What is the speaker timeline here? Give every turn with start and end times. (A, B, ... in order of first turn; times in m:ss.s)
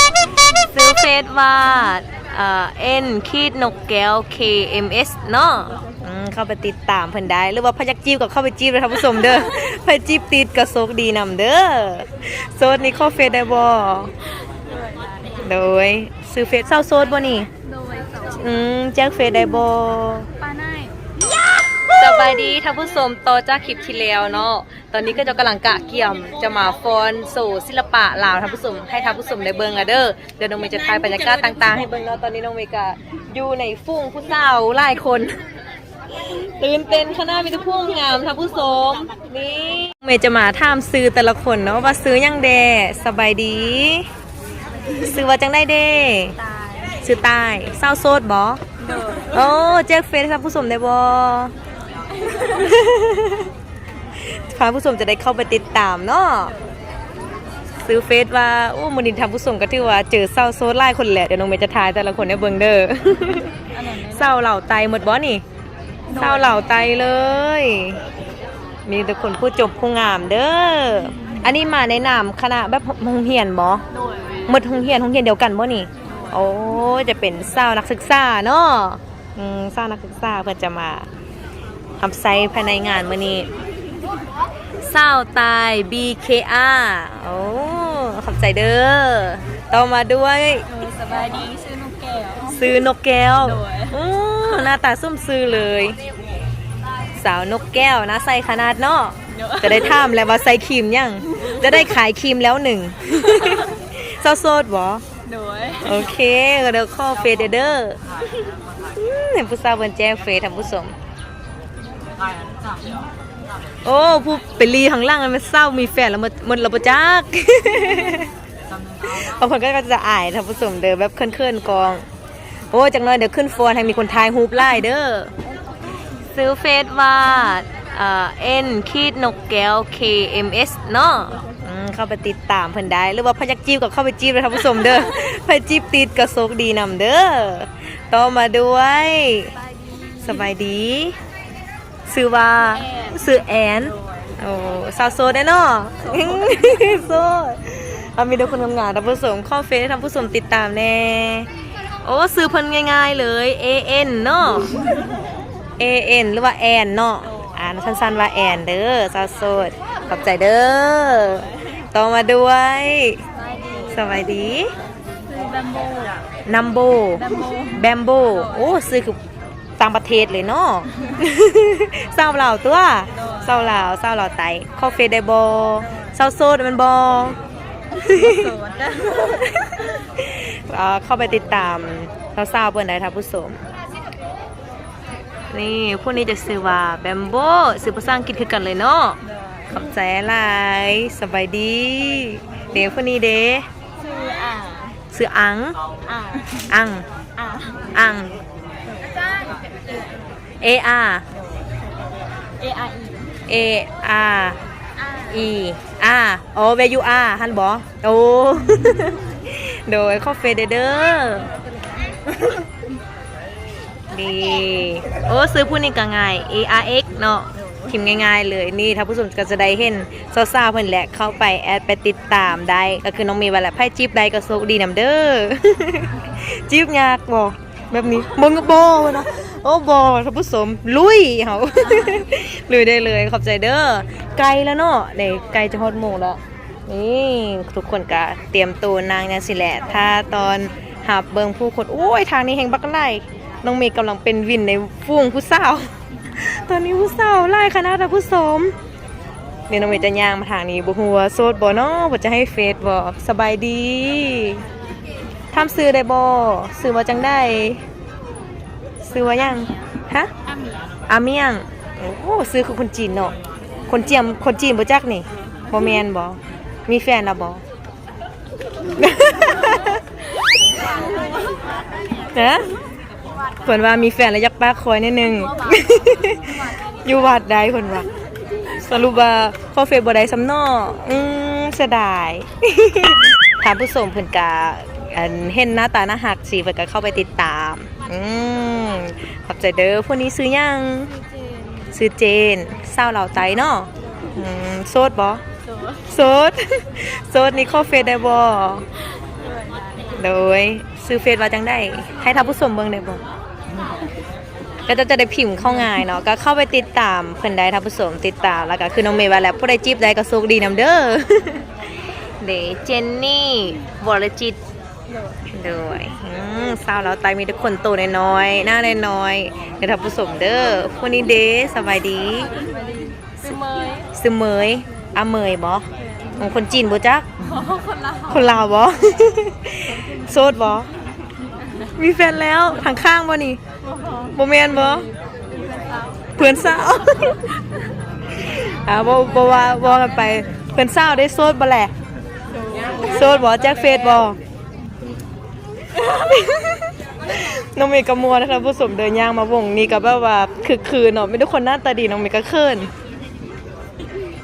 0:00.5-0:14.1 A
0:14.6-0:15.5 B
0:15.4-0:17.5 A
0:17.6-0:18.5 B
0:18.4-0:20.3 A
0:20.4-0:21.4 B
0:21.9-0:35.4 A
0:30.7-0:31.7 B
0:36.2-0:44.1 A
0:45.0-0:46.4 A
0:46.4-0:47.0 B
0:47.0-0:48.6 A
0:48.8-0:49.5 B
0:49.3-0:51.5 A
0:52.1-0:52.8 B
0:52.4-0:53.5 A
0:54.3-0:56.6 A
0:57.8-1:05.4 A
1:03.7-1:04.3 B
1:06.1-1:06.6 B
1:06.1-1:08.0 A
1:08.9-1:13.8 A
1:13.9-1:14.5 B
1:14.5-1:21.1 A
1:16.0-1:16.4 B
1:22.0-1:23.5 A
1:24.8-1:30.7 A
1:30.7-1:32.8 B
1:32.5-1:36.0 A
1:33.4-1:34.0 B
1:37.2-1:45.0 A
1:39.3-1:40.1 B
1:45.2-1:46.1 B
1:45.8-1:48.0 A
1:48.9-1:51.0 A
1:53.8-1:58.3 A
1:59.0-2:02.0 A
2:02.7-2:05.3 A
2:06.3-2:19.5 A
2:19.5-2:20.5 B
2:20.2-2:21.2 A
2:22.1-2:31.5 A
2:22.6-2:24.4 B
2:26.0-2:27.0 B
2:32.0-2:34.8 A
2:35.8-2:43.2 A
2:43.4-2:44.1 B
2:43.9-2:44.7 A
2:45.1-2:46.2 B
2:46.5-2:49.2 A
2:47.2-2:47.9 B
2:49.8-2:57.4 A
2:53.2-2:53.5 B
2:58.0-2:59.5 B
2:58.0-2:58.6 A
2:59.6-3:03.6 A
3:05.5-3:13.7 A
3:14.0-3:15.0 B
3:15.1-3:15.8 A
3:16.0-3:16.6 B
3:16.7-3:17.0 A
3:17.4-3:17.9 B
3:17.9-3:18.4 A
3:18.9-3:20.1 B
3:20.6-3:21.2 A
3:22.6-3:23.3 B
3:23.5-3:24.6 A
3:25.0-3:25.4 B
3:25.3-3:31.5 A
3:31.7-3:32.6 B
3:34.1-4:08.7 A
4:09.7-4:14.6 A
4:15.5-4:17.8 A
4:19.0-4:20.3 A
4:19.2-4:19.9 B
4:20.4-4:20.9 B
4:21.1-4:23.4 A
4:23.9-4:27.6 A
4:29.0-4:30.0 A
4:29.4-4:33.6 B
4:32.3-4:32.7 A
4:33.6-4:38.1 A
4:35.4-4:37.2 B
4:38.8-4:51.1 A
4:51.2-4:51.9 B
4:51.9-4:55.4 A
4:55.6-4:56.1 B
4:56.1-4:58.9 A
4:59.3-5:00.2 B
5:00.2-5:03.2 A
5:04.9-5:11.7 A
5:12.4-5:14.6 A
5:15.1-5:15.4 B
5:15.5-5:22.5 A
5:22.3-5:24.1 B
5:24.1-5:25.9 A
5:26.0-5:26.5 B
5:26.4-5:27.3 A
5:27.4-5:28.7 B
5:28.3-5:30.9 A
5:32.0-5:33.6 A
5:33.8-5:37.0 B
5:34.4-5:35.1 A
5:36.4-5:37.5 A
5:38.4-5:41.9 A
5:42.5-5:44.2 B
5:43.0-5:44.4 A
5:46.0-5:52.9 A